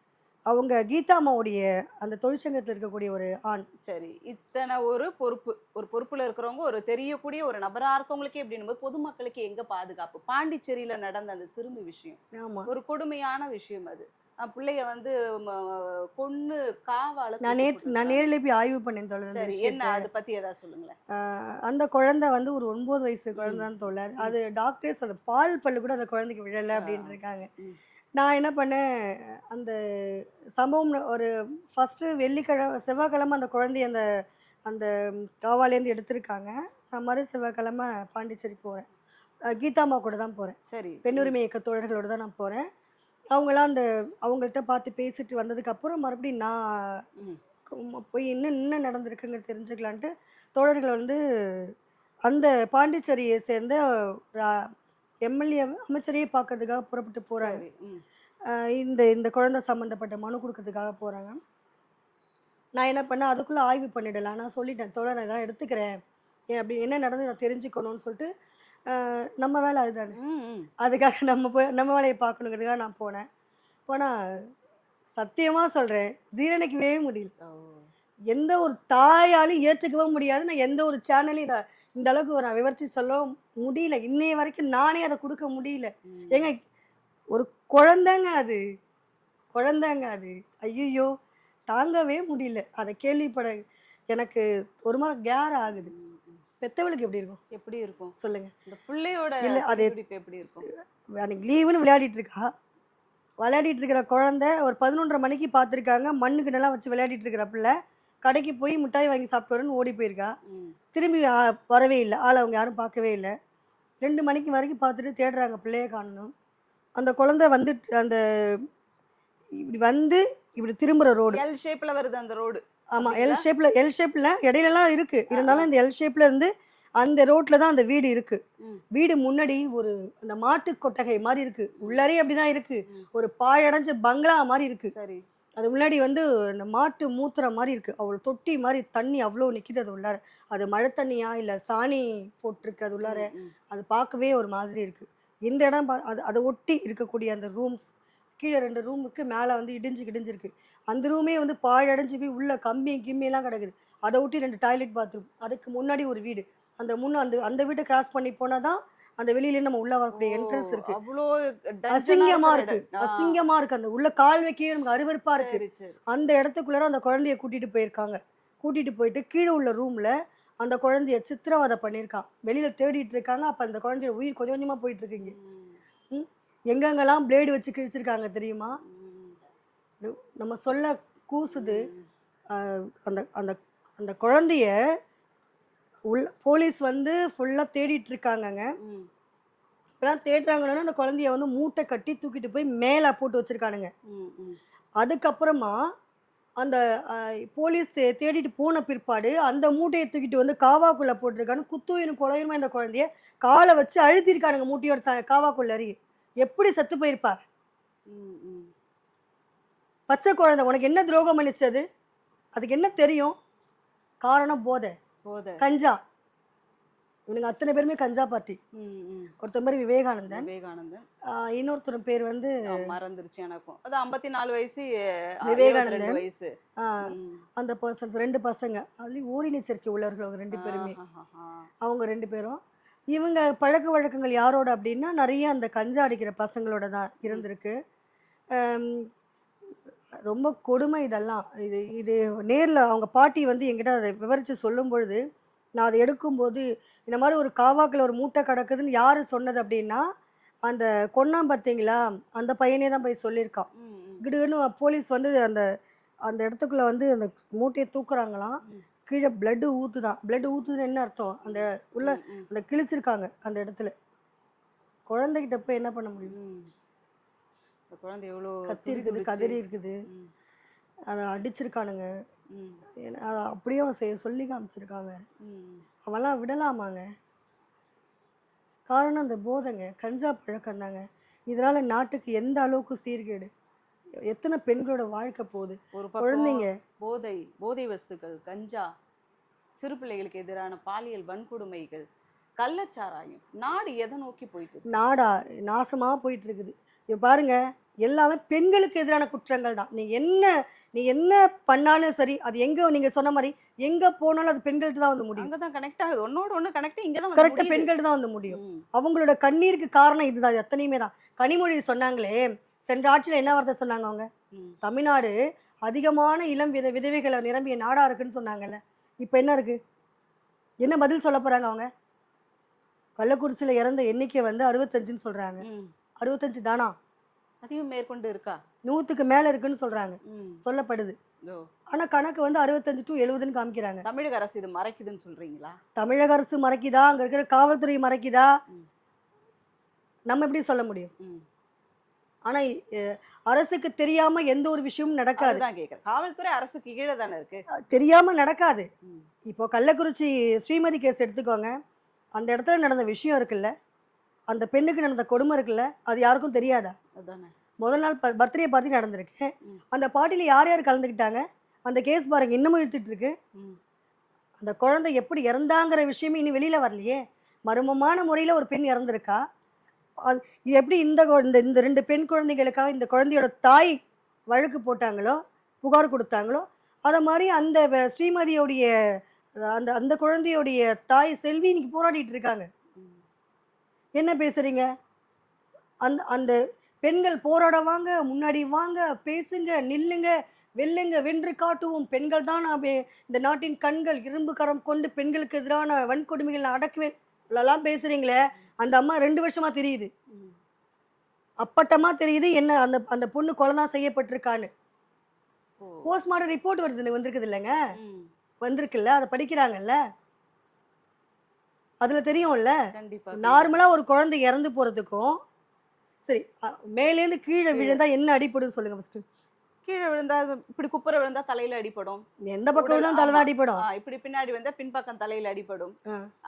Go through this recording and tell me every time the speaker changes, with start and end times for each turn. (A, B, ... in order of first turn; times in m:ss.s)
0:00.5-0:03.7 A
0:03.9-0:12.2 B
0:12.3-0:12.7 A
0:12.7-0:18.3 B
0:17.4-0:20.1 A
0:19.3-0:21.0 B
0:21.1-0:27.5 A
0:23.4-0:23.7 B
0:26.8-0:27.8 B
0:28.2-0:34.0 A
0:34.7-0:38.9 A
0:39.5-0:42.6 A
0:40.7-0:41.4 B
0:43.3-0:47.0 A
0:47.7-0:51.7 A
0:52.3-0:54.7 A
0:55.3-0:57.6 A
0:57.4-0:58.0 B
0:58.5-1:01.4 A
1:02.8-1:06.0 A
1:06.5-1:08.3 A
1:08.9-1:10.2 A
1:10.2-1:10.7 B
1:10.8-1:13.2 A
1:15.2-1:17.3 A
1:17.4-1:17.9 B
1:18.3-1:26.6 A
1:26.1-1:26.5 B
1:27.3-1:28.6 A
1:29.5-1:31.1 A
1:31.7-1:33.6 A
1:34.1-1:35.9 A
1:35.7-1:36.4 B
1:36.6-1:37.4 A
1:37.5-1:38.1 B
1:38.2-1:38.5 A
1:38.7-1:40.7 B
1:39.4-1:40.7 A
1:41.2-1:42.5 A
1:43.4-1:47.7 A
1:48.2-1:50.3 A
1:50.5-1:50.8 B
1:50.9-1:53.3 A
1:54.0-1:56.3 A
1:57.0-1:58.6 A
1:59.6-2:01.4 A
2:01.3-2:03.5 B
2:03.0-2:08.4 A
2:05.3-2:05.7 B
2:08.9-2:14.9 A
2:14.9-2:15.2 B
2:15.6-2:27.9 A
2:23.0-2:23.5 B
2:28.4-2:41.0 A
2:40.1-2:43.4 B
2:41.9-2:55.4 A
2:45.4-2:46.0 B
2:55.2-2:55.8 B
2:56.1-2:58.8 A
2:58.8-2:59.4 B
3:00.0-3:01.9 A
3:01.5-3:02.1 B
3:02.5-3:04.7 A
3:06.1-3:08.7 A
3:08.8-3:09.1 B
3:10.0-3:13.9 A
3:14.1-3:14.6 B
3:15.0-3:15.8 A
3:16.6-3:27.4 A
3:28.1-3:28.7 B
3:30.1-3:31.8 A
3:32.6-3:33.4 A
3:34.2-3:34.9 A
3:35.3-3:35.6 B
3:35.6-3:36.0 A
3:37.3-3:38.6 A
3:38.8-3:39.3 B
3:39.4-3:40.5 A
3:40.3-3:41.0 B
3:41.3-3:42.6 A
3:42.7-3:44.9 B
3:45.4-3:46.5 B
3:45.5-3:46.2 A
3:46.8-3:51.0 A
3:47.0-3:47.4 B
3:50.5-3:51.7 B
3:51.8-3:52.6 A
3:53.1-3:57.8 A
3:58.6-3:59.1 A
4:00.3-4:05.2 A
4:05.8-4:10.0 A
4:10.7-4:13.7 A
4:13.8-4:14.2 B
4:14.2-4:15.6 A
4:16.3-4:23.9 A
4:21.5-4:22.5 B
4:25.1-4:26.3 A
4:26.3-4:26.7 B
4:27.9-4:30.3 B
4:28.7-4:30.0 A
4:31.1-4:32.0 A
4:32.5-4:32.8 B
4:33.0-4:35.2 A
4:35.4-4:35.8 B
4:36.1-4:37.0 A
4:38.9-4:43.5 A
4:44.3-4:46.7 A
4:45.9-4:48.9 B
4:49.8-4:52.0 B
4:52.6-4:55.0 B
4:54.9-5:05.5 A
5:05.4-5:07.9 B
5:07.4-5:14.3 A
5:08.5-5:08.8 B
5:14.8-5:19.8 A
5:20.8-5:21.9 A
5:23.2-5:25.6 A
5:25.6-5:25.9 B
5:26.2-5:26.9 A
5:27.6-5:28.6 B
5:28.9-5:31.2 A
5:30.3-5:30.6 B
5:31.9-5:34.0 A
5:34.0-5:35.8 B
5:36.0-5:38.5 A
5:40.3-5:41.1 A
5:42.5-5:45.6 A
5:45.4-5:47.7 B
5:47.8-5:48.9 A
5:49.5-5:51.7 A
5:52.4-5:53.7 A
5:54.5-5:57.0 A
5:57.2-5:57.5 B
5:57.8-6:03.3 A
6:04.6-6:09.4 A
6:10.3-6:14.0 A
6:14.5-6:18.9 A
6:19.7-6:22.7 A
6:24.2-6:24.9 A
6:26.0-6:40.1 A
6:41.6-6:44.7 A
6:45.8-6:46.1 B
6:46.1-6:47.8 A
6:48.0-6:48.3 B
6:48.6-6:50.0 A
6:52.0-6:52.8 A
6:52.9-6:53.8 B
6:53.4-6:55.4 A
6:56.3-6:59.2 A
6:57.7-6:58.0 B
6:59.9-7:02.2 B
7:02.4-7:03.8 A
7:02.8-7:05.9 B